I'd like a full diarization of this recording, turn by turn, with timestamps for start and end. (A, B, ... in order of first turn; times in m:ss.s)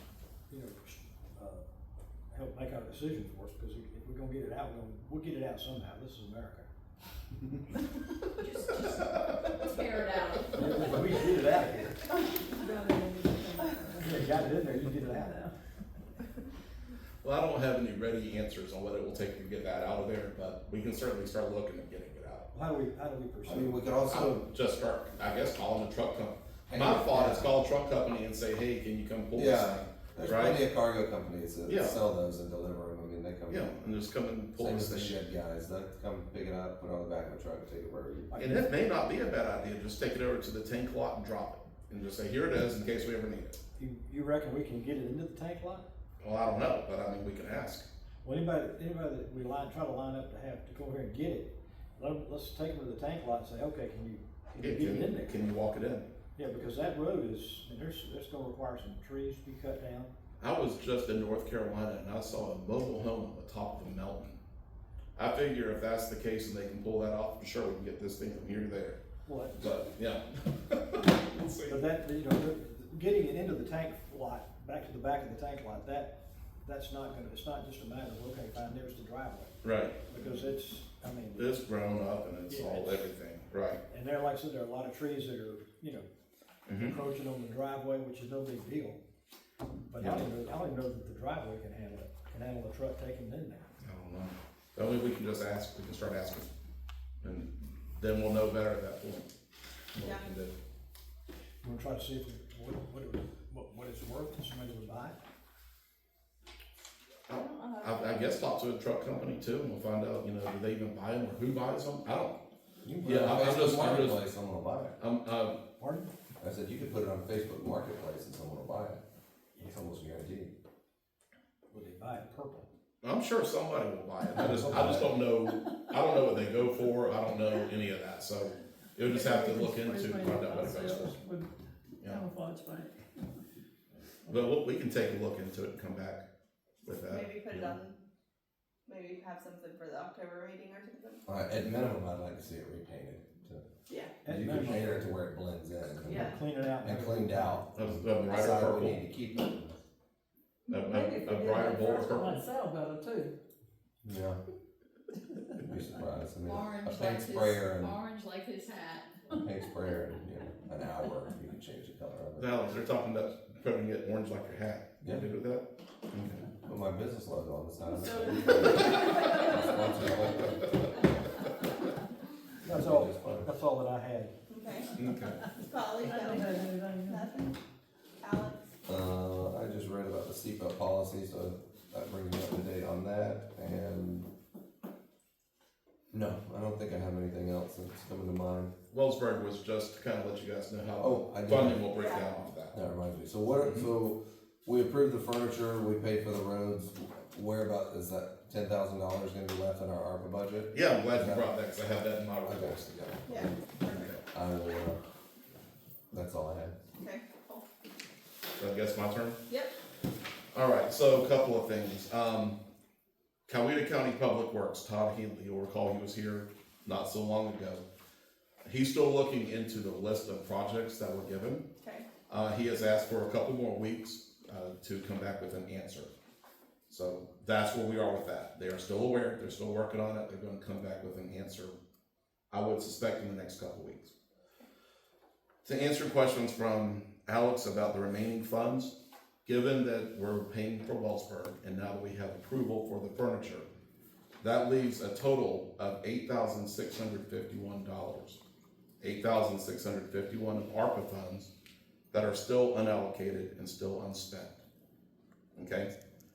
0:00.5-0:01.6 A
0:02.3-0:06.7 A
0:08.4-0:08.9 B
0:08.9-0:11.0 C
0:09.7-0:10.5 B
0:10.5-0:12.1 A
0:12.5-0:14.4 D
0:14.0-0:15.5 A
0:15.1-0:15.4 D
0:17.2-0:22.5 C
0:22.5-0:23.9 A
0:23.4-0:24.4 E
0:24.1-0:30.6 C
0:26.7-0:27.5 E
0:29.4-0:33.7 E
0:31.7-0:32.0 C
0:33.5-0:35.2 C
0:34.6-0:38.4 E
0:38.3-0:38.9 A
0:38.4-0:43.6 C
0:43.8-0:45.9 A
0:46.2-0:47.9 C
0:48.2-0:55.3 A
0:54.6-0:56.1 C
0:56.4-1:00.1 A
1:00.4-1:04.4 C
1:05.2-1:09.0 C
1:09.3-1:09.8 A
1:09.6-1:11.8 C
1:11.7-1:19.5 A
1:19.6-1:20.0 C
1:20.1-1:21.6 A
1:21.4-1:23.8 C
1:22.5-1:23.1 A
1:23.9-1:26.1 A
1:26.7-1:27.0 C
1:26.8-1:29.0 A
1:29.9-1:33.7 A
1:30.0-1:30.2 C
1:33.8-1:36.5 C
1:37.2-1:39.3 C
1:40.0-1:40.5 C
1:40.0-1:40.3 F
1:41.6-1:45.2 A
1:47.3-1:52.4 C
1:47.3-1:48.1 D
1:52.8-1:55.0 E
1:53.0-1:54.2 C
1:55.0-1:55.6 C
1:55.8-1:56.1 A
1:56.4-1:59.0 E
1:59.6-2:00.5 E
2:01.7-2:02.7 A
2:03.0-2:11.2 C
2:04.4-2:05.2 A
2:09.1-2:11.5 D
2:12.0-2:13.0 D
2:14.3-2:16.2 C
2:16.8-2:17.8 C
2:17.0-2:18.0 F
2:18.9-2:21.2 F
2:21.3-2:23.6 E
2:23.9-2:24.1 F
2:24.2-2:25.1 A
2:24.3-2:26.2 E
2:26.0-2:27.7 A
2:26.1-2:26.4 F
2:26.8-2:29.8 E
2:27.8-2:29.0 C
2:30.7-2:32.4 C
2:30.7-2:33.4 D
2:34.0-2:34.4 E
2:35.6-2:38.0 E
2:36.4-2:39.1 B
2:39.3-2:42.5 E
2:42.4-2:46.5 C
2:46.6-2:50.8 E
2:48.2-2:49.4 F
2:52.6-2:54.3 A
2:52.6-2:53.5 E
2:54.5-2:54.9 F
2:55.0-2:55.4 C
2:55.5-2:57.6 F
2:56.0-2:57.5 D
2:58.2-2:58.7 F
2:58.9-3:04.3 E
3:06.1-3:08.7 E
3:08.9-3:12.8 C
3:11.0-3:11.8 E
3:11.9-3:12.3 F
3:12.7-3:21.5 E
3:13.6-3:13.9 C
3:20.7-3:22.8 C
3:22.4-3:23.5 E
3:23.3-3:24.2 F
3:24.1-3:25.0 E
3:26.1-3:26.7 E
3:27.0-3:27.6 F
3:28.6-3:29.4 C
3:30.5-3:32.6 C
3:33.5-3:37.8 C
3:38.6-3:41.7 C
3:41.8-3:42.1 F
3:42.3-3:46.1 C
3:46.9-3:51.8 C
3:52.5-3:54.1 C
3:55.6-3:58.9 C
3:59.5-4:03.7 C
4:04.4-4:08.4 C
4:09.0-4:11.5 C
4:12.1-4:14.6 C
4:15.6-4:15.9 C